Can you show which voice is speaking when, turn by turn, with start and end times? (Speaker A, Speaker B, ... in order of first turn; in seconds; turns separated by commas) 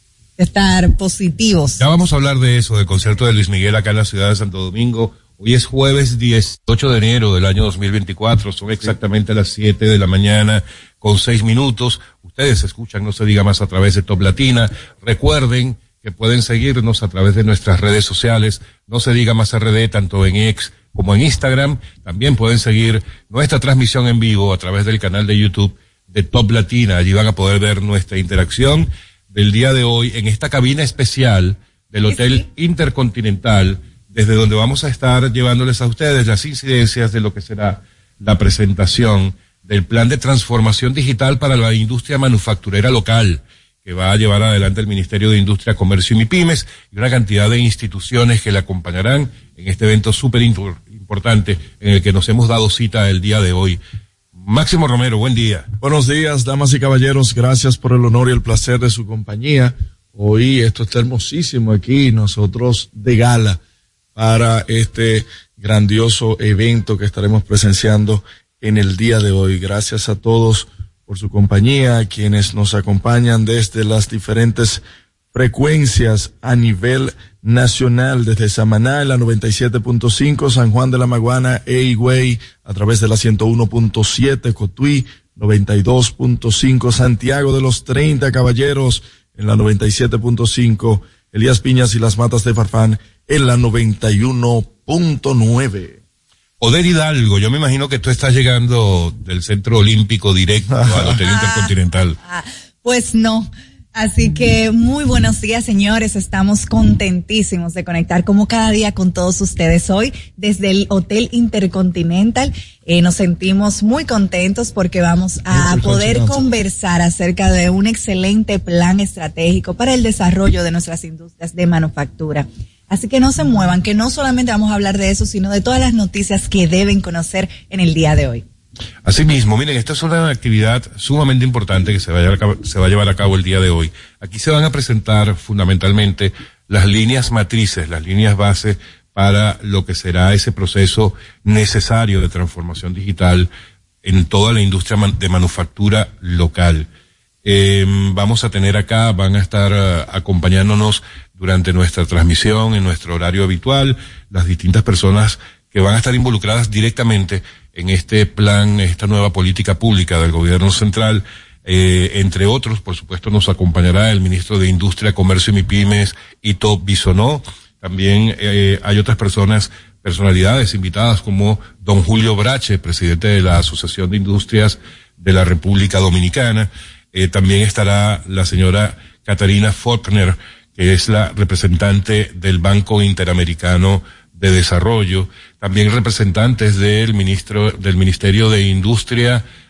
Speaker A: 0.4-1.8, Speaker B: 1.8-53.8, Speaker A: 32.1-32.4, Speaker B: 54.4-55.7, Speaker C: 55.8-63.6, Speaker C: 64.2-74.8, Speaker C: 75.3-96.0, Speaker B: 96.6-102.2, Speaker C: 100.7-101.2, Speaker A: 101.2-128.4, Speaker C: 115.5-116.5, Speaker B: 129.0-143.5, Speaker B: 144.0-146.9, Speaker B: 147.4-189.4